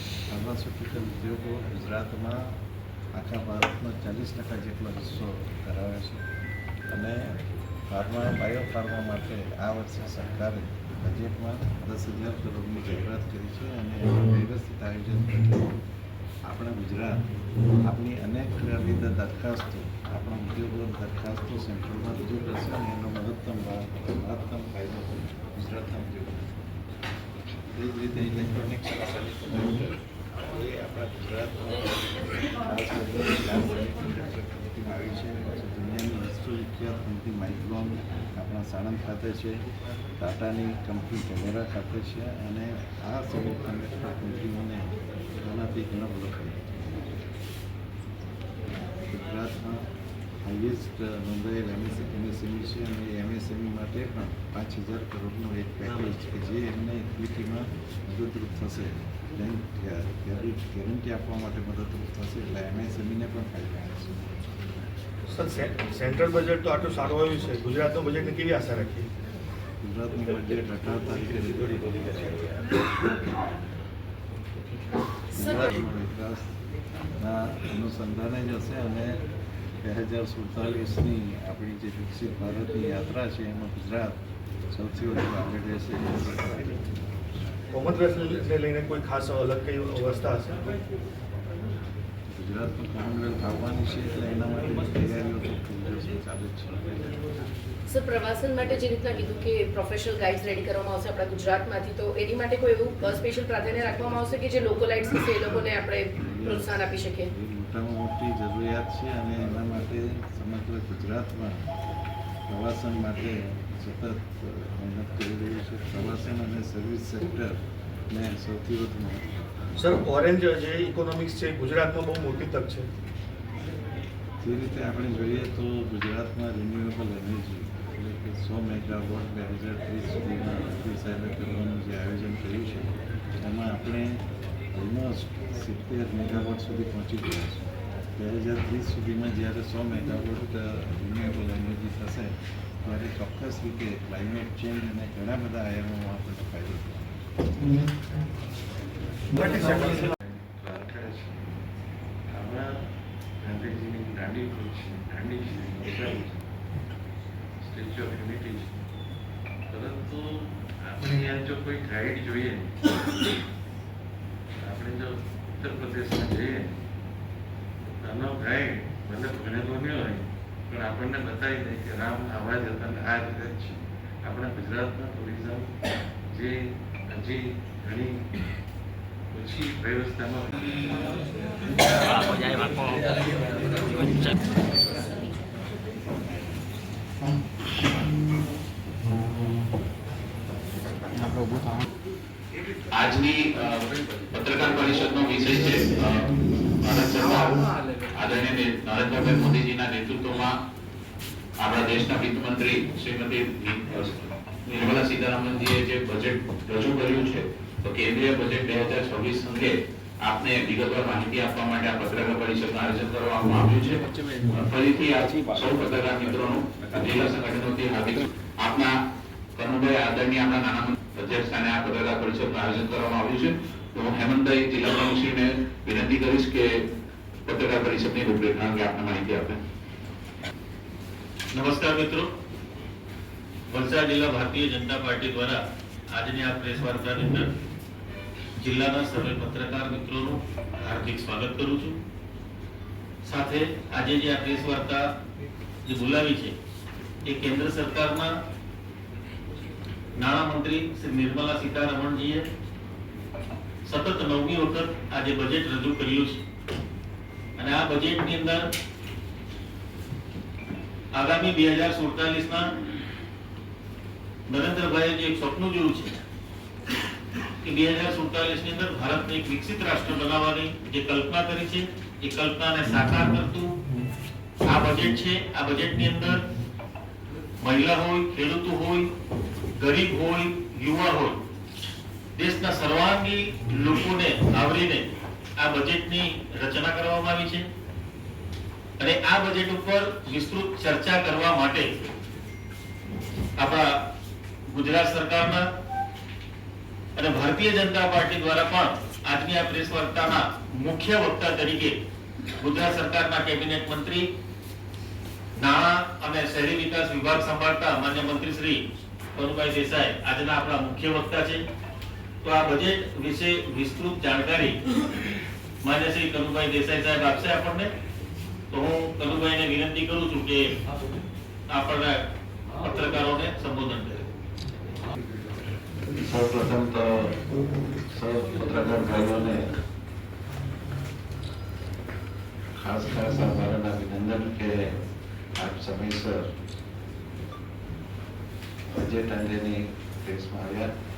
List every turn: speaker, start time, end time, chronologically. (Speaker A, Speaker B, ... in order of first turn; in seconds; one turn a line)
Speaker A: 0.3-2.6
Speaker A: 3.1-6.3
Speaker A: 6.9-7.4
Speaker A: 7.9-15.7
Speaker A: 16.4-17.2
Speaker A: 17.8-26.6
Speaker A: 27.6-39.6
Speaker A: 40.2-47.1
Speaker A: 49.0-49.9
Speaker A: 50.4-64.3
Speaker B: 65.3-69.1
Speaker A: 69.8-72.5
Speaker A: 75.3-76.5
Speaker A: 77.2-79.2
Speaker A: 79.8-84.2
Speaker A: 84.7-86.9
Speaker B: 87.7-90.8
Speaker A: 92.3-97.3
Speaker C: 97.9-107.3
Speaker A: 106.2-106.8
Speaker A: 107.3-111.7
Speaker A: 112.5-117.6
Speaker A: 118.1-119.5
Speaker B: 119.8-122.9
Speaker A: 124.4-147.7
Speaker A: 149.3-151.5
Speaker A: 152.3-156.5
Speaker A: 157.6-158.8
Speaker A: 159.7-162.9
Speaker A: 164.6-166.8
Speaker A: 168.0-175.7
Speaker A: 176.3-178.3
Speaker A: 179.3-180.9
Speaker D: 182.2-183.0
Speaker A: 186.1-186.6
Speaker E: 192.9-200.6
Speaker E: 201.6-218.9
Speaker E: 219.6-226.8
Speaker E: 227.4-229.6
Speaker D: 231.5-232.3
Speaker D: 233.7-237.5
Speaker D: 238.6-242.0
Speaker D: 243.2-245.1
Speaker D: 245.9-246.5
Speaker D: 247.2-248.3
Speaker D: 250.2-252.5
Speaker D: 253.8-256.4
Speaker D: 257.6-258.7
Speaker D: 261.1-262.7
Speaker D: 264.5-266.2
Speaker D: 267.6-273.8
Speaker D: 274.7-276.4
Speaker D: 277.6-279.1
Speaker D: 279.8-281.4
Speaker D: 282.4-285.0
Speaker D: 285.6-287.7
Speaker D: 289.0-291.9
Speaker D: 293.6-294.0
Speaker D: 294.7-295.7
Speaker D: 297.1-301.9
Speaker D: 302.6-304.3
Speaker D: 305.6-308.8
Speaker D: 309.3-311.6
Speaker D: 312.4-314.8
Speaker D: 315.8-317.9
Speaker D: 318.7-320.7
Speaker D: 321.7-322.2
Speaker D: 322.8-324.2
Speaker A: 326.1-327.4
Speaker A: 328.1-329.7
Speaker A: 332.8-335.0
Speaker A: 335.6-336.5
Speaker A: 338.9-340.9